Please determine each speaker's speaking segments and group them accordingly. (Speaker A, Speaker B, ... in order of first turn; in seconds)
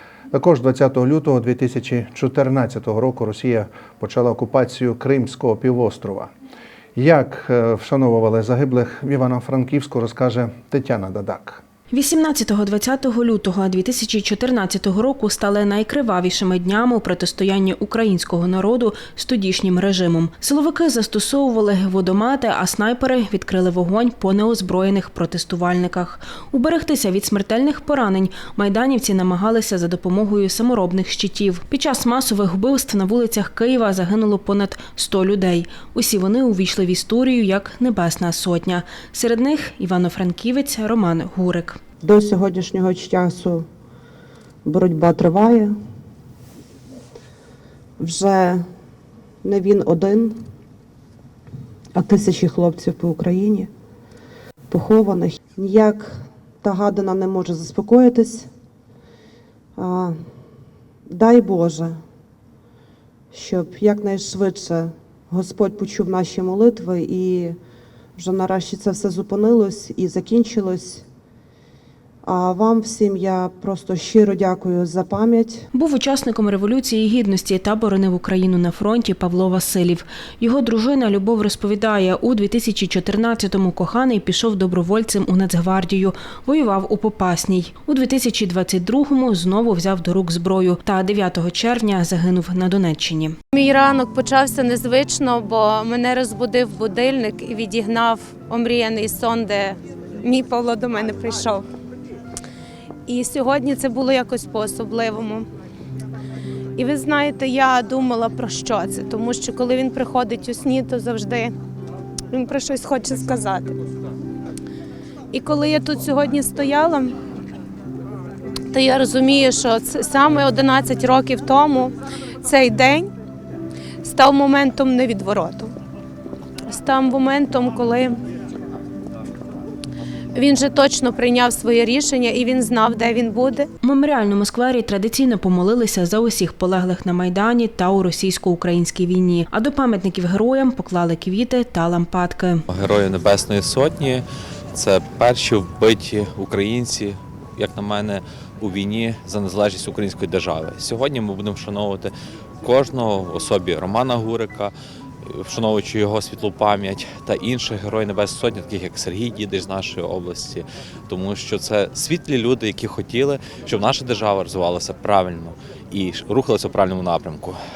Speaker A: 0.3-6.3, 7.0-11.6
Speaker B: 11.9-41.8, 75.7-93.3, 133.8-142.6
Speaker C: 42.0-43.6, 44.6-45.8, 48.0-48.6, 49.4-50.4, 52.0-53.7, 54.7-58.5, 59.8-60.1, 61.1-62.0, 63.3-67.6, 68.2-71.1, 72.2-75.7
Speaker D: 93.5-101.6, 103.1-105.5, 106.8-111.5, 112.3-113.8, 115.3-117.2, 118.7-123.1, 124.0-125.7, 126.7-128.2, 130.3-133.7
Speaker E: 142.7-152.1, 152.6-154.7, 155.2-167.6